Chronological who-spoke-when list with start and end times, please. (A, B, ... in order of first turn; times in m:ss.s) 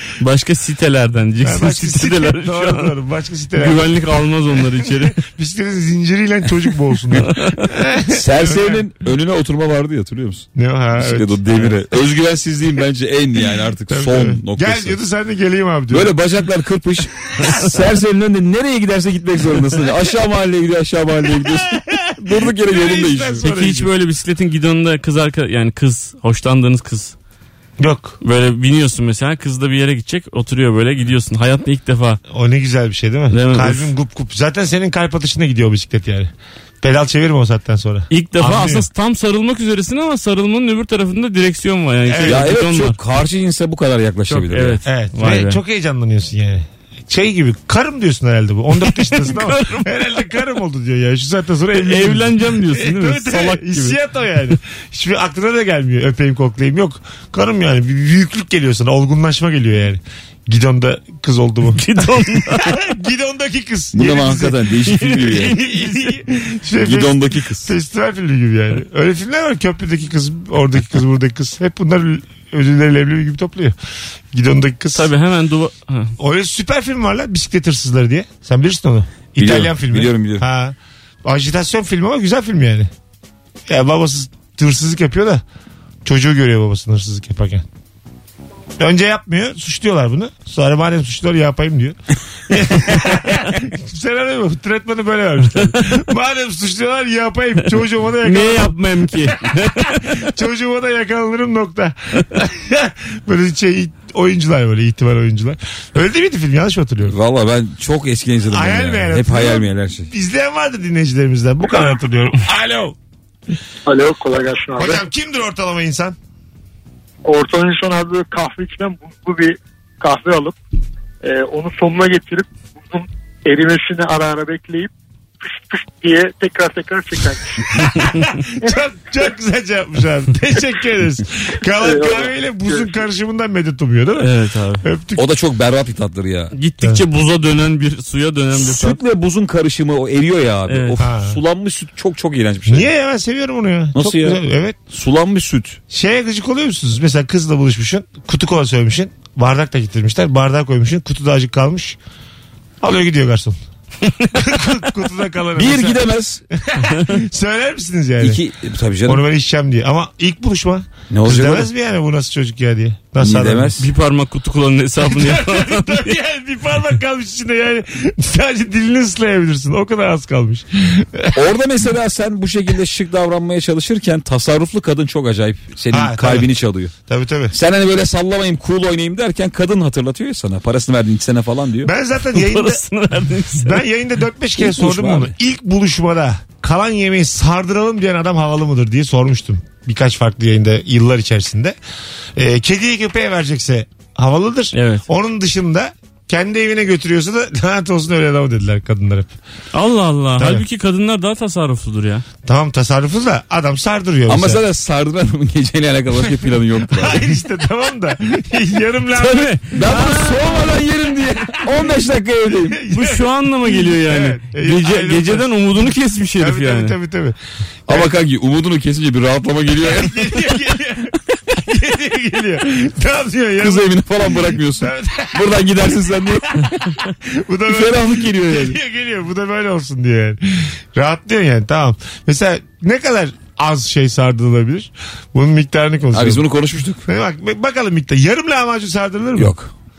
0:00.2-0:02.9 A
0:01.4-0:08.8 B
0:03.6-0:05.2 A
0:07.2-0:07.7 A
0:08.1-0:15.0 C
0:10.6-0:11.7 B
0:13.9-0:16.2 B
0:15.9-0:23.4 C
0:21.4-0:23.9 B
0:23.4-0:27.1 A
0:27.8-0:28.2 B
0:28.2-0:32.2 A
0:32.3-0:36.3 B
0:33.3-0:33.9 A
0:36.8-0:38.8 B
0:38.1-0:43.0 A
0:42.0-0:42.5 B
0:42.2-0:44.8 C
0:44.3-0:45.6 A
0:44.8-1:13.7 B
0:48.8-0:50.0 A
0:51.7-0:54.0 A
1:01.7-1:02.8 A
1:03.9-1:05.5 C
1:05.0-1:06.0 A
1:06.8-1:07.7 C
1:14.3-1:15.1 B
1:14.9-1:16.1 A
1:16.2-1:22.9 B
1:19.4-1:20.4 C
1:23.7-1:25.4 B
1:26.0-1:27.6 B
1:28.8-1:32.0 B
1:32.5-1:47.2 B
1:38.2-1:40.2 A
1:47.0-1:50.1 C
1:48.5-1:52.9 B
1:53.9-1:55.0 D
1:54.8-1:56.2 B
1:57.2-2:00.6 D
2:01.2-2:08.0 D
2:07.7-2:14.3 B
2:11.8-2:12.9 D
2:14.2-2:14.8 A
2:14.8-2:15.2 B
2:15.2-2:16.5 C
2:16.5-2:19.0 A
2:18.5-2:22.9 C
2:20.7-2:21.0 A
2:21.0-2:21.4 B
2:22.7-2:24.8 B
2:23.9-2:25.8 C
2:25.9-2:32.0 B
2:32.8-2:33.6 B
2:34.3-2:38.4 B
2:35.6-2:36.4 C
2:36.8-2:37.2 A
2:38.2-2:39.2 C
2:39.0-2:43.8 B
2:41.1-2:41.7 C
2:43.2-2:43.8 C
2:43.8-2:46.1 A
2:45.0-2:51.4 B
2:51.3-2:56.9 C
2:55.9-2:56.5 B
2:57.1-2:57.6 B
2:57.5-3:01.9 C
3:01.8-3:02.8 B
3:02.3-3:03.8 A
3:03.5-3:11.8 B
3:04.6-3:05.3 C
3:12.4-3:19.3 B
3:14.7-3:15.0 A
3:19.7-3:22.2 A
3:20.4-3:20.6 B
3:22.4-3:24.6 B
3:24.3-3:27.2 C
3:26.9-3:30.6 B
3:29.1-3:30.6 A
3:29.7-3:32.8 C
3:31.5-3:31.8 B
3:32.5-3:37.4 B
3:32.9-3:37.0 A
3:37.9-3:40.8 C
3:39.8-3:56.4 B
3:43.6-3:46.9 C
3:47.7-3:48.8 C
3:56.1-3:57.0 C
3:57.0-3:59.5 B
3:59.4-3:59.7 C